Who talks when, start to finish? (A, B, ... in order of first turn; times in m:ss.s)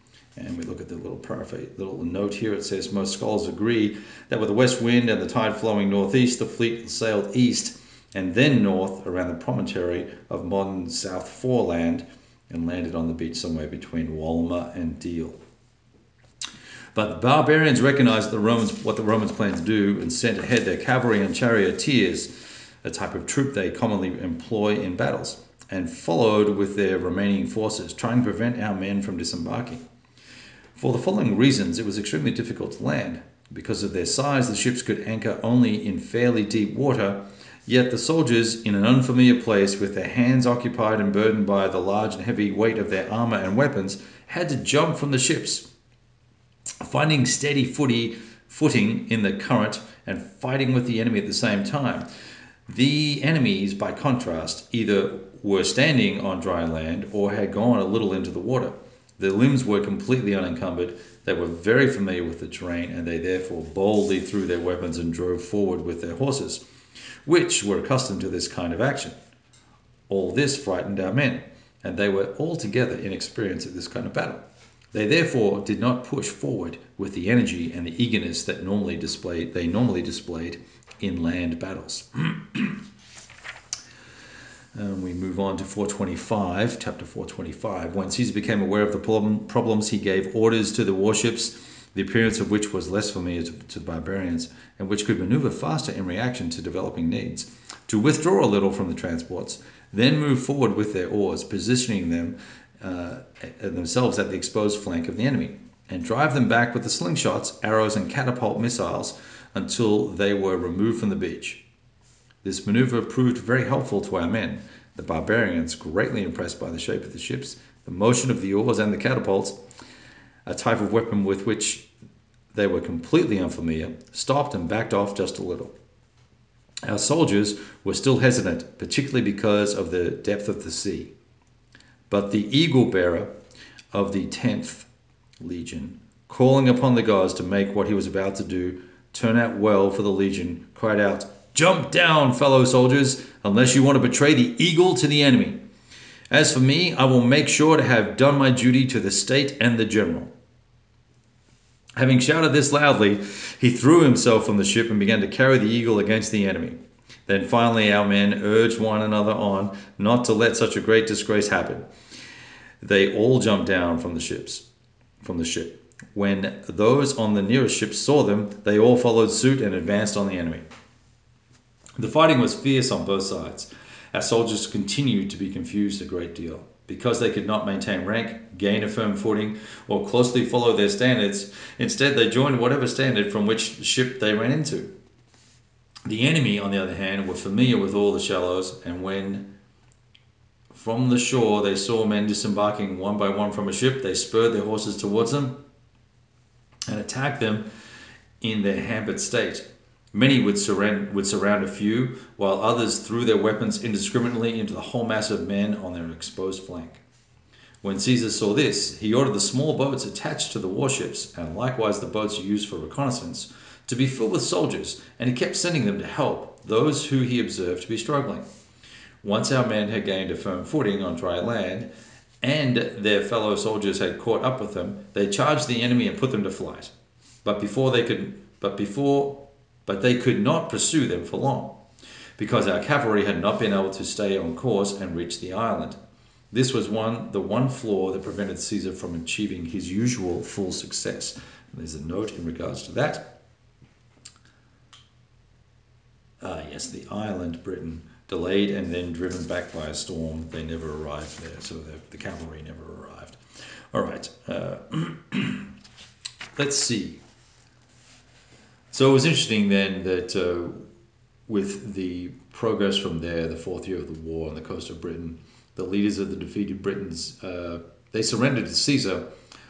0:00.4-0:15.4 A
0:16.9-0:29.8 A
0:30.8-0:45.7 A
0:46.8-0:52.1 A
0:52.7-1:06.6 A
1:07.2-1:09.2 A
1:10.1-1:14.4 A
1:14.9-1:22.8 A
1:24.8-1:51.6 A
1:52.4-1:59.6 A
2:00.5-2:01.9 A
2:02.5-2:05.7 A
2:06.8-2:11.1 A
2:12.1-2:13.3 A
2:13.9-2:14.9 A
2:15.4-2:25.6 A
2:26.3-2:30.3 A
2:32.0-2:41.9 A
2:42.8-2:44.7 A
2:45.2-2:50.6 A
2:52.0-3:04.9 A
3:06.1-3:09.5 A
3:10.7-3:15.6 A
3:16.9-3:17.7 A
3:18.4-3:27.0 A
3:27.8-3:38.4 A
3:39.2-3:41.9 A
3:42.4-3:46.9 A
3:47.4-3:51.8 A
3:52.4-3:56.0 A
3:56.5-4:03.4 A
4:06.4-4:13.4 A
4:13.9-4:15.7 A
4:16.6-4:17.2 A
4:18.9-4:20.8 A
4:21.5-4:29.3 A